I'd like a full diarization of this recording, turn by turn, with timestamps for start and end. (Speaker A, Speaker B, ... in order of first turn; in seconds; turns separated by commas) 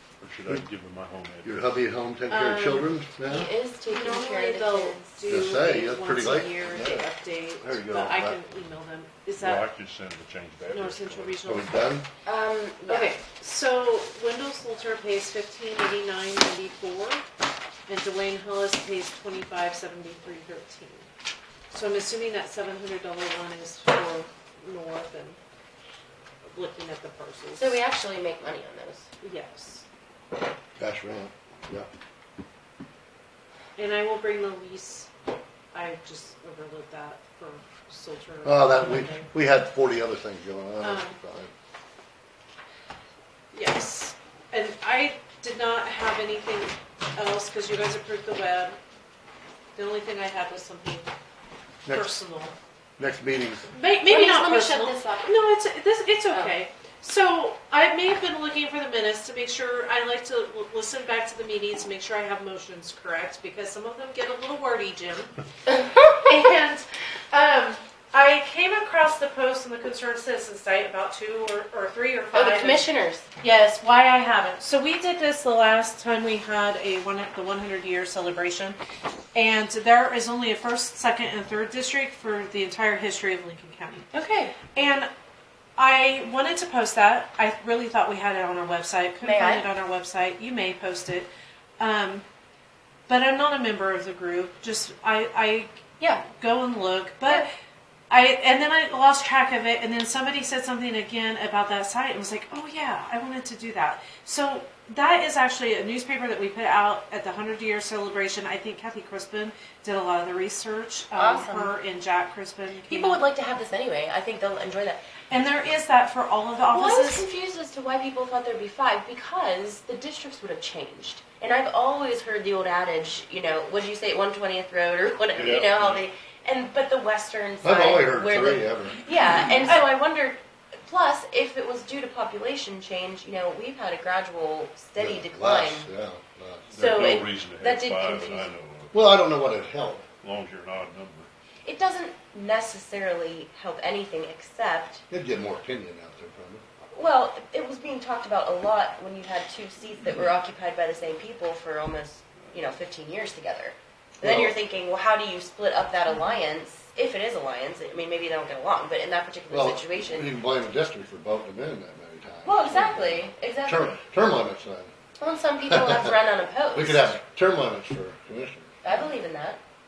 Speaker A: 0.2-1.8, Speaker B: 0.3-0.7, Speaker B: 1.4-3.5, Speaker C: 2.3-2.9, Speaker D: 3.3-5.3, Speaker C: 3.9-9.7, Speaker B: 5.3-7.1, Speaker B: 7.6-8.4, Speaker A: 9.4-11.5, Speaker C: 10.7-11.8, Speaker B: 11.4-12.1, Speaker D: 12.2-13.2, Speaker C: 12.9-17.2, Speaker C: 17.9-21.1, Speaker C: 21.7-25.4, Speaker C: 26.5-27.8, Speaker D: 27.6-29.1, Speaker C: 29.2-29.8, Speaker B: 30.8-31.9, Speaker C: 33.8-35.1, Speaker C: 35.7-39.3, Speaker B: 38.5-41.5, Speaker C: 40.8-41.2, Speaker C: 43.5-48.8, Speaker C: 49.8-51.1, Speaker C: 51.9-52.5, Speaker B: 53.0-53.7, Speaker C: 53.7-72.9, Speaker D: 54.0-55.4, Speaker D: 56.3-56.5, Speaker D: 72.3-73.3, Speaker C: 73.4-78.8, Speaker C: 79.3-84.1, Speaker D: 84.1-84.6, Speaker C: 84.7-85.1, Speaker C: 85.8-92.2, Speaker D: 89.2-89.7, Speaker C: 93.1-97.5, Speaker C: 98.1-113.2, Speaker D: 111.2-111.8, Speaker D: 112.9-115.0, Speaker C: 115.3-117.3, Speaker D: 116.7-135.9, Speaker A: 125.4-126.0, Speaker B: 127.6-129.1, Speaker B: 135.0-136.7, Speaker A: 136.7-139.3, Speaker D: 136.8-138.5, Speaker B: 138.9-140.1, Speaker A: 140.2-141.3, Speaker D: 141.6-145.0, Speaker B: 145.1-146.6, Speaker D: 146.9-160.3, Speaker B: 154.2-154.6, Speaker C: 156.1-156.4, Speaker B: 159.5-164.9, Speaker D: 162.4-163.9, Speaker D: 165.2-167.1, Speaker B: 165.7-166.1, Speaker B: 166.7-169.0, Speaker D: 168.8-169.6